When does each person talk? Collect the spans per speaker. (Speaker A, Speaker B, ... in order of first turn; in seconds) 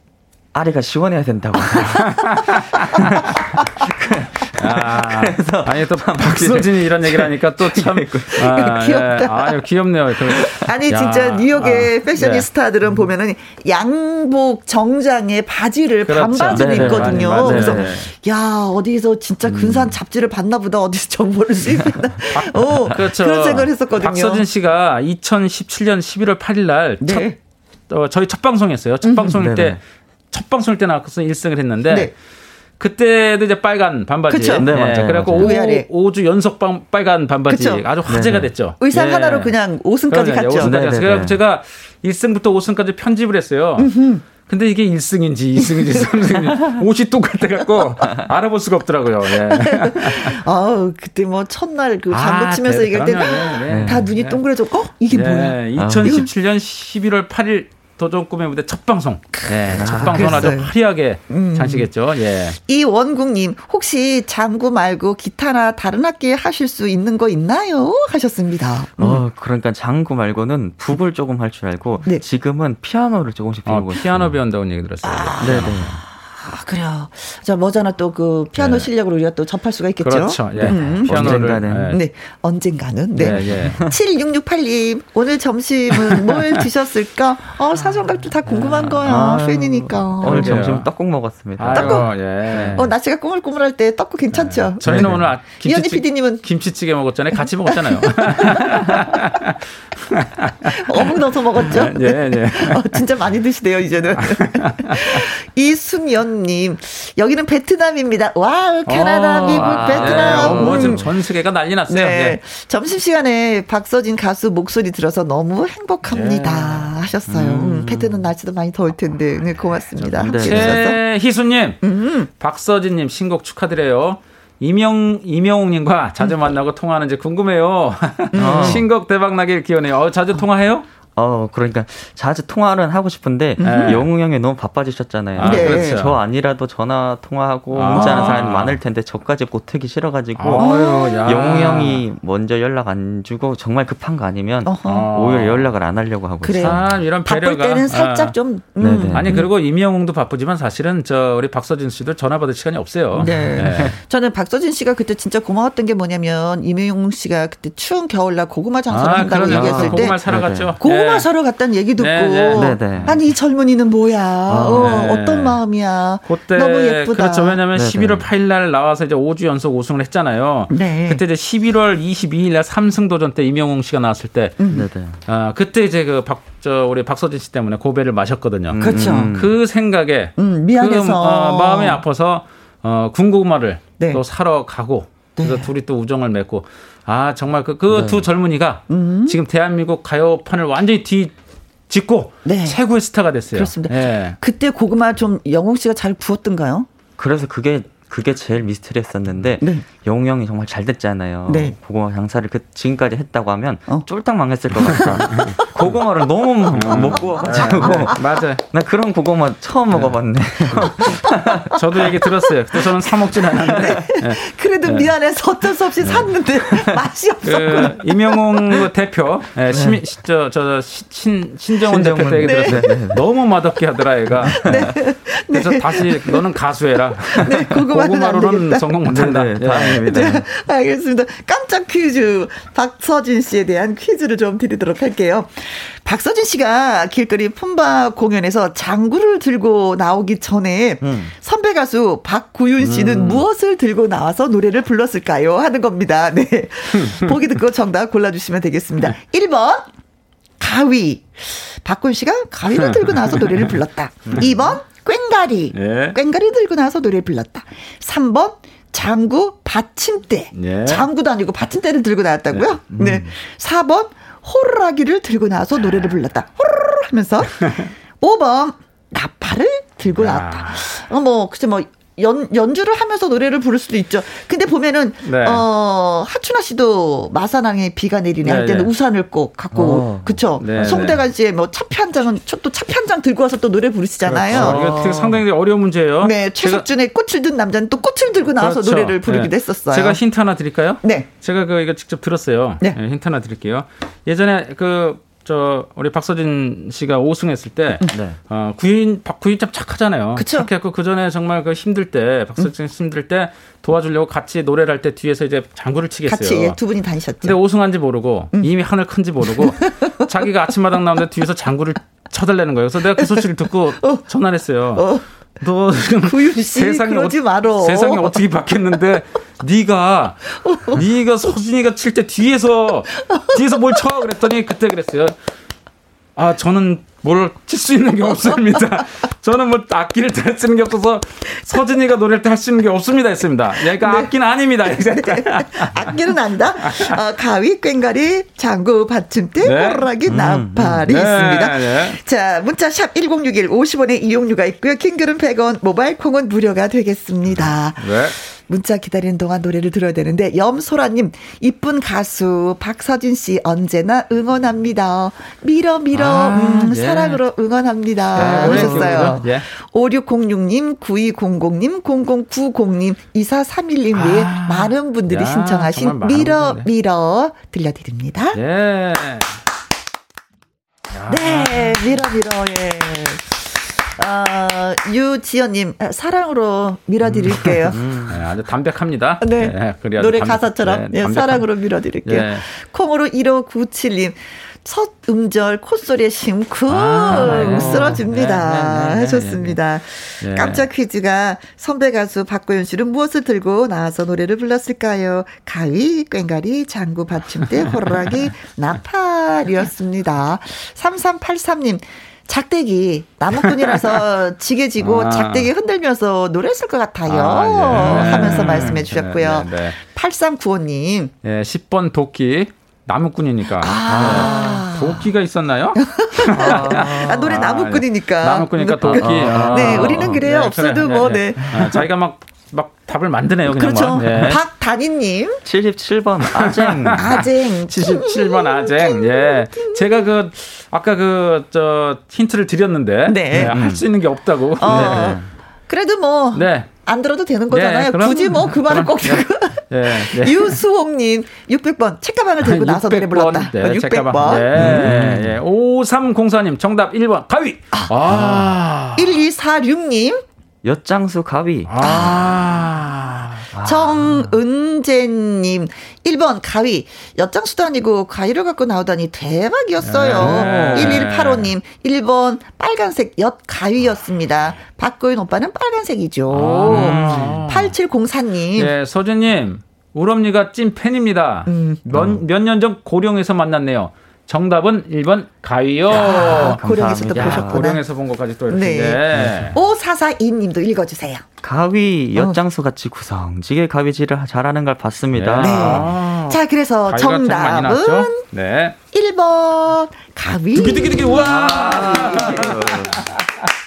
Speaker A: 0.5-8.5, 16.5-18.0, 19.5-19.9, 29.3-29.8, 34.5-35.5, 38.1-38.5, 40.6-41.4, 53.7-54.0, 55.8-56.3, 59.7-60.5, 69.0-74.3, 75.4-76.0, 80.6-82.0, 83.3-84.0, 89.0-92.9, 94.8-95.3, 109.4-111.2, 117.3-118.2, 120.2-120.8, 128.3-128.9, 131.1-146.9, 148.8-149.4, 153.3-153.9, 159.4-160.8, 162.5-163.2, 164.5-165.1, 167.7-168.2, 174.7-175.2, 178.7-179.6, 187.9-188.2, 197.2-212.2, 216.1-217.0, 219.7-220.0, 221.8-223.3, 224.3-224.9, 229.0-230.4, 241.0-241.3, 254.2-254.7, 262.9-263.3, 279.7-281.0, 284.5-285.4, 298.1-298.4, 340.3-341.0, 358.4-359.4, 377.8-378.4, 387.3-388.2, 407.9-408.9, 414.0-414.6, 416.5-417.6, 419.1-420.4, 421.6-421.9, 425.6-427.4, 433.5-434.1, 434.8-435.4, 444.5-445.6, 448.3-448.7, 450.8-452.4, 453.7-454.5, 460.4-461.3, 466.9-467.7, 472.1-472.4, 476.3-478.0, 479.3-479.7, 481.6-486.1, 490.9-493.3
Speaker B: 1.8-3.1, 4.5-12.5, 16.1-18.1, 22.3-27.3, 27.9-29.8, 30.3-32.1, 32.8-39.5, 40.1-50.4, 52.1-54.4, 55.1-62.6, 73.7-76.0, 78.5-78.9, 80.0-82.0, 83.2-83.8, 86.0-86.6, 88.5-88.9, 90.2-90.9, 91.6-92.9, 94.3-103.0, 104.2-105.2, 108.8-112.4, 116.0-116.9, 120.0-121.8, 122.3-130.9, 133.6-134.1, 135.4-136.2, 137.7-138.8, 140.3-142.0, 144.8-145.7, 146.6-148.3, 149.1-154.0, 158.9-161.3, 162.0-163.1, 164.6-165.6, 166.2-174.6, 175.2-191.3, 191.9-194.4, 204.8-205.6, 206.7-208.6, 209.9-210.2, 210.8-211.1, 211.7-215.1, 216.0-216.3, 217.4-224.9, 225.5-230.1, 242.8-243.4, 255.7-256.2, 260.5-261.1, 270.1-270.9, 275.2-275.6, 278.4-278.9, 280.6-281.2, 284.2-286.9, 288.6-306.8, 307.4-325.3, 326.4-336.1, 336.8-337.1, 339.6-340.1, 340.9-342.2, 348.0-348.4, 356.1-357.4, 358.3-359.6, 364.1-366.9, 368.5-369.5, 371.1-372.1, 377.3-381.6, 382.2-382.6, 386.9-389.8, 390.4-390.9, 403.6-404.0, 405.0-405.7, 407.3-410.0, 411.4-424.6, 426.4-435.4, 436.5-436.9, 437.7-440.8, 442.6-449.4, 451.9-453.7, 460.0-461.7, 466.5-467.9, 468.7-476.8, 477.3-479.8, 485.3-489.0, 490.7-493.4
Speaker C: 8.4-9.6, 10.2-24.4, 27.0-27.4, 29.0-29.4, 34.3-34.7, 35.3-35.9, 37.5-37.8, 38.8-40.8, 43.8-44.2, 45.6-46.0, 49.3-56.3, 59.7-60.7, 61.3-61.9, 62.7-69.2, 75.0-90.8, 91.7-92.1, 92.7-96.4, 97.3-98.9, 100.7-111.1, 111.9-121.0, 121.8-122.3, 126.2-126.5, 128.3-128.8, 133.6-134.1, 135.4-136.0, 137.9-138.4, 140.5-141.5, 144.6-145.1, 146.4-149.5, 153.1-160.2, 160.8-167.6, 170.7-171.2, 174.6-174.9, 178.8-179.4, 180.4-182.0, 185.4-185.7, 188.9-189.4, 192.4-192.8, 193.5-196.9, 199.6-199.8, 201.5-201.8, 204.8-205.8, 206.9-208.1, 211.0-211.6, 213.6-218.8, 222.4-223.0, 224.4-226.4, 227.3-228.9, 230.0-249.9, 250.6-285.0, 286.2-290.2, 291.0-291.3, 300.3-300.7, 306.2-307.6, 309.6-310.1, 313.2-313.4, 314.0-314.2, 314.9-315.2, 316.2-318.4, 320.6-321.0, 323.2-324.0, 333.9-334.3, 334.8-368.6, 371.3-378.0, 379.4-411.3, 413.8-415.3, 416.0-421.9, 423.6-425.6, 427.1-430.3, 433.2-433.8, 434.8-445.1, 447.9-448.6, 449.1-450.4, 452.0-452.6, 453.7-468.9, 471.7-472.2, 476.1-478.0, 478.7-481.4, 482.3-482.6, 485.6-488.4, 489.1-492.9